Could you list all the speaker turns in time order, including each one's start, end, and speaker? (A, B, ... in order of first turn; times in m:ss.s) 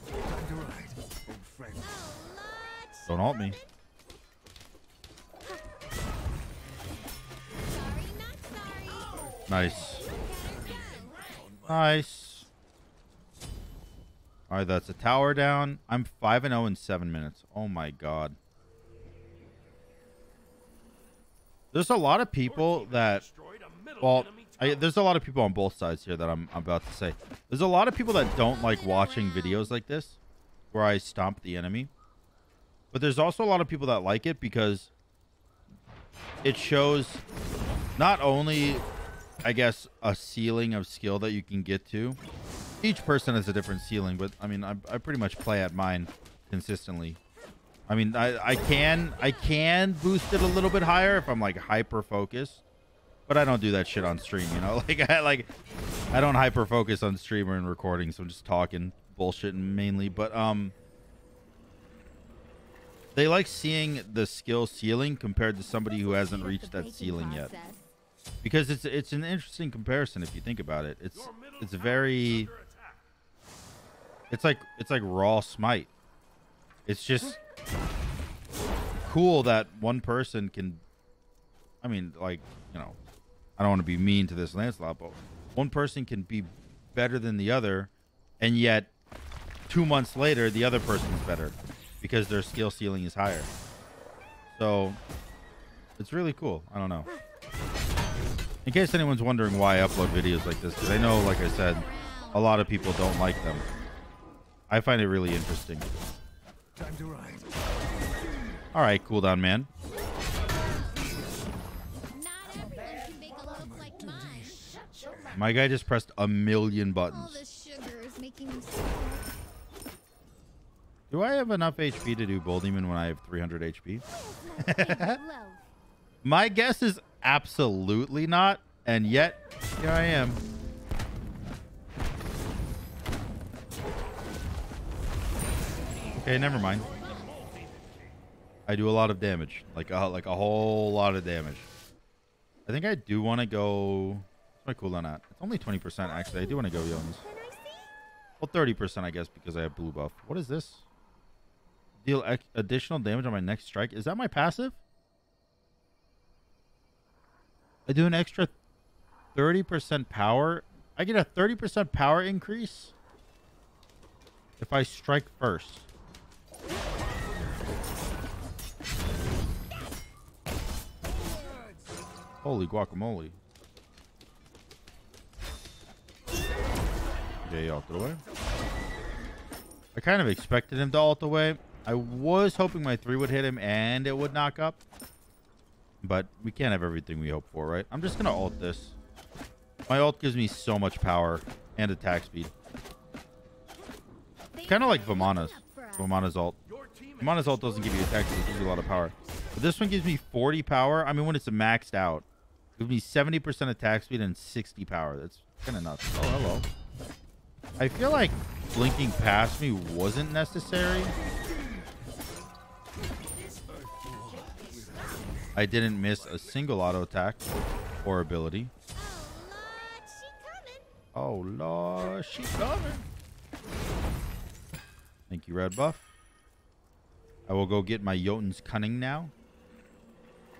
0:01.7-0:03.6 A
0:03.1-0:03.6 B
0:07.6-0:11.5 A
0:09.5-0:10.0 B
0:11.6-0:12.5 B
0:14.5-0:18.4 B
0:21.7-0:23.3 B
0:24.0-0:30.2 B
0:28.4-0:29.7 A
0:30.7-0:31.9 B
0:32.9-0:34.9 B
0:36.4-0:37.2 B
0:38.0-0:38.8 B
0:39.4-0:42.2 B
0:42.8-0:47.2 B
0:47.9-0:52.6 B
0:53.3-0:55.5 B
0:56.1-1:00.7 B
1:03.1-1:07.5 B
1:05.8-1:07.9 A
1:08.4-1:12.5 B
1:14.3-1:15.9 B
1:16.8-1:17.4 B
1:19.0-1:20.8 B
1:21.8-1:23.0 B
1:23.6-1:28.9 B
1:29.7-1:33.5 B
1:34.5-1:35.0 B
1:36.0-1:37.1 B
1:38.6-1:43.6 B
1:41.2-1:42.7 A
1:44.7-1:45.9 B
1:48.7-1:49.7 B
1:50.0-1:51.3 A
1:52.1-1:54.9 A
1:55.3-1:57.4 B
1:57.1-1:59.3 A
2:01.1-2:04.0 B
2:04.1-2:05.6 A
2:04.6-2:05.2 B
2:06.2-2:10.4 B
2:16.0-2:17.5 A
2:16.2-2:16.9 B
2:18.7-2:21.7 B
2:22.6-2:27.2 B
2:26.0-2:28.0 A
2:28.4-2:30.8 B
2:32.0-2:34.8 B
2:37.9-2:38.5 B
2:39.3-2:42.9 B
2:44.6-2:45.9 B
2:52.4-2:53.4 B
2:57.4-2:58.2 B
2:59.9-3:04.8 B
3:06.0-3:09.0 B
3:09.9-3:12.5 B
3:14.5-3:16.2 A
3:14.7-3:16.6 B
3:17.2-3:26.7 B
3:27.8-3:31.1 B
3:35.5-3:37.5 B
3:38.0-3:38.7 B
3:38.9-3:40.8 A
3:41.1-3:43.0 B
3:45.3-3:46.0 B
3:47.5-3:49.3 B